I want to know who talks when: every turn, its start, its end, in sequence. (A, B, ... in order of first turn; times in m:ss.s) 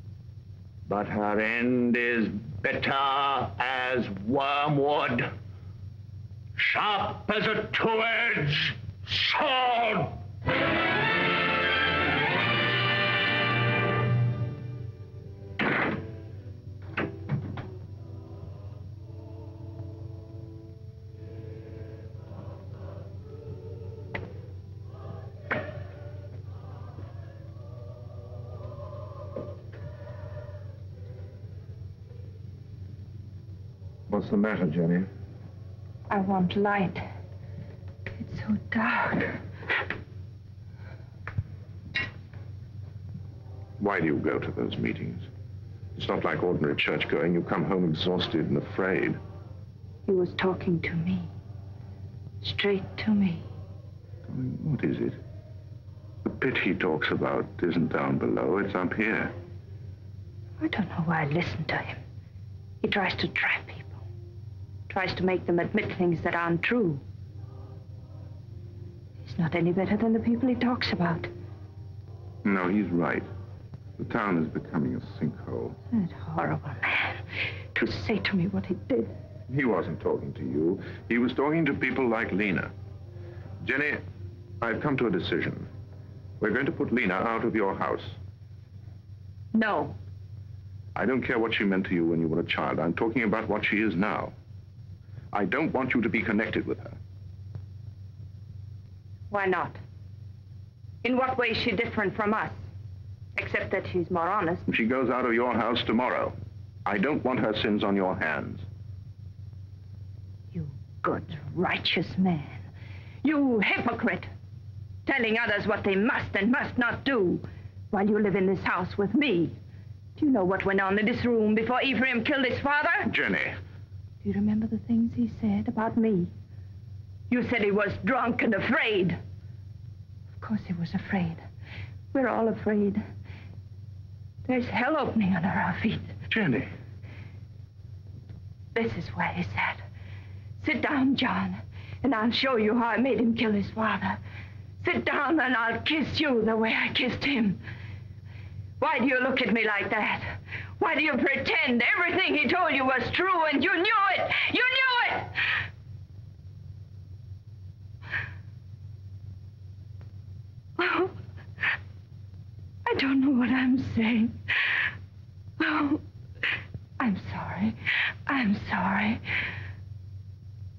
0:00.9-0:05.3 A
0:06.6-0:10.2 A
0:34.1-0:35.1 B
0:36.1-0:37.1 C
0:38.2-0:39.4 C
0:43.8-0:45.3 B
0:45.9-0:49.2 B
0:50.0-0:51.3 C
0:52.4-0:53.4 C
0:54.3-0:55.2 B
0:56.2-0:59.3 B
1:00.6-1:02.0 C
1:02.8-1:04.0 C
1:04.9-1:07.0 C
1:09.2-1:11.3 C
1:12.4-1:13.2 B
1:14.0-1:15.8 B
1:15.9-1:19.1 C
1:19.5-1:22.7 B
1:23.6-1:24.0 B
1:24.6-1:25.7 B
1:26.4-1:28.2 B
1:29.5-1:29.9 C
1:30.9-1:34.3 B
1:35.3-1:37.0 B
1:39.3-1:39.8 C
1:41.0-1:42.6 C
1:43.4-1:44.6 C
1:44.7-1:48.6 B
1:50.5-1:52.7 C
1:53.2-1:54.3 C
1:55.0-1:59.6 C
2:00.2-2:03.1 C
2:03.1-2:03.6 B
2:04.2-2:06.3 C
2:07.3-2:09.2 C
2:10.4-2:11.4 C
2:12.1-2:13.0 C
2:14.4-2:16.1 C
2:16.3-2:16.7 B
2:18.7-2:19.8 C
2:20.6-2:24.2 C
2:24.8-2:27.6 C
2:28.8-2:35.5 C
2:40.8-2:41.1 C
2:42.8-2:44.9 C
2:45.6-2:46.0 C
2:47.0-2:49.2 C